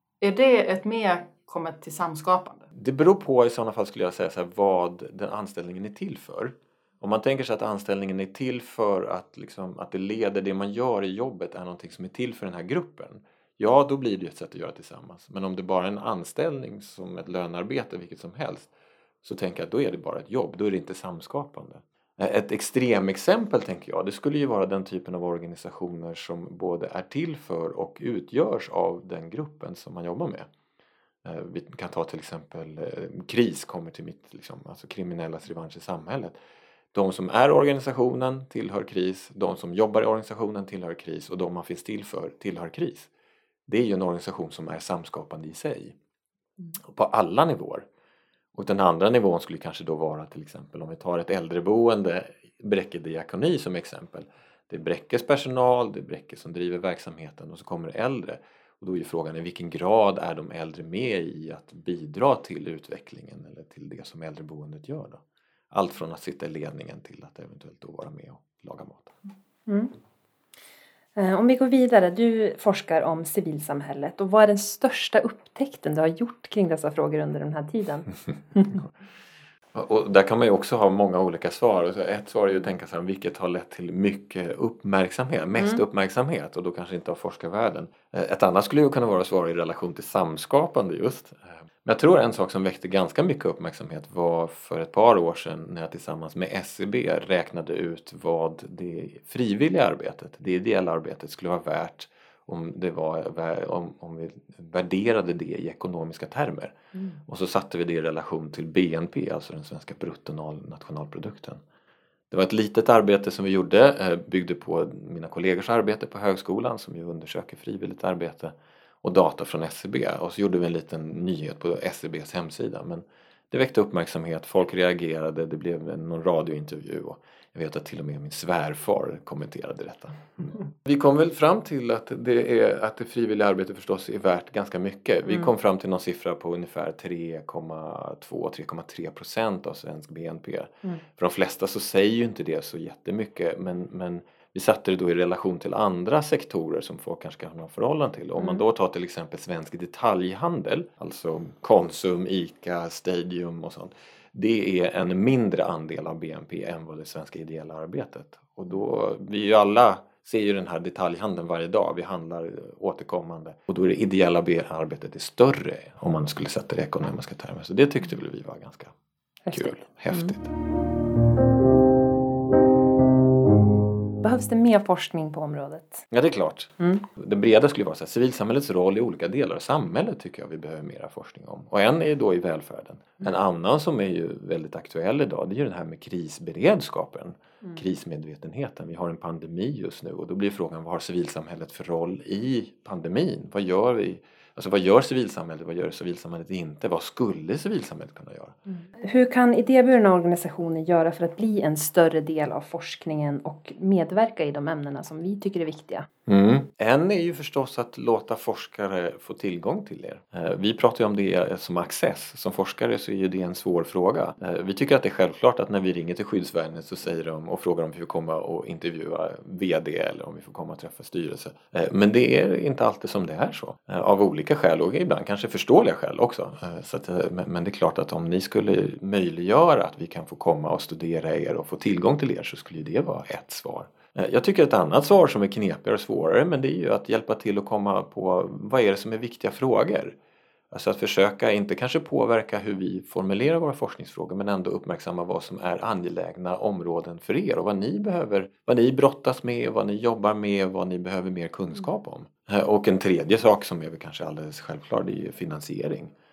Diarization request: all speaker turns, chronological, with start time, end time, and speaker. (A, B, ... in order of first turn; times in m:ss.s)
0:00.2-0:02.7 A
0:02.7-0:18.7 B
0:19.2-0:30.5 B
0:31.2-0:36.4 B
0:36.9-0:43.1 B
0:43.7-0:46.0 B
0:46.8-0:47.9 B
0:48.5-1:05.2 B
1:05.7-1:09.1 B
1:09.7-1:09.9 C
1:11.2-1:18.8 C
1:19.7-1:46.8 B
1:47.3-1:51.6 B
1:52.3-2:48.9 B
2:49.5-2:50.3 C
2:49.5-2:50.5 B
2:54.2-2:56.1 C
2:56.1-3:18.6 B
3:18.7-3:26.1 C
3:26.3-4:00.1 B
4:00.7-4:16.1 B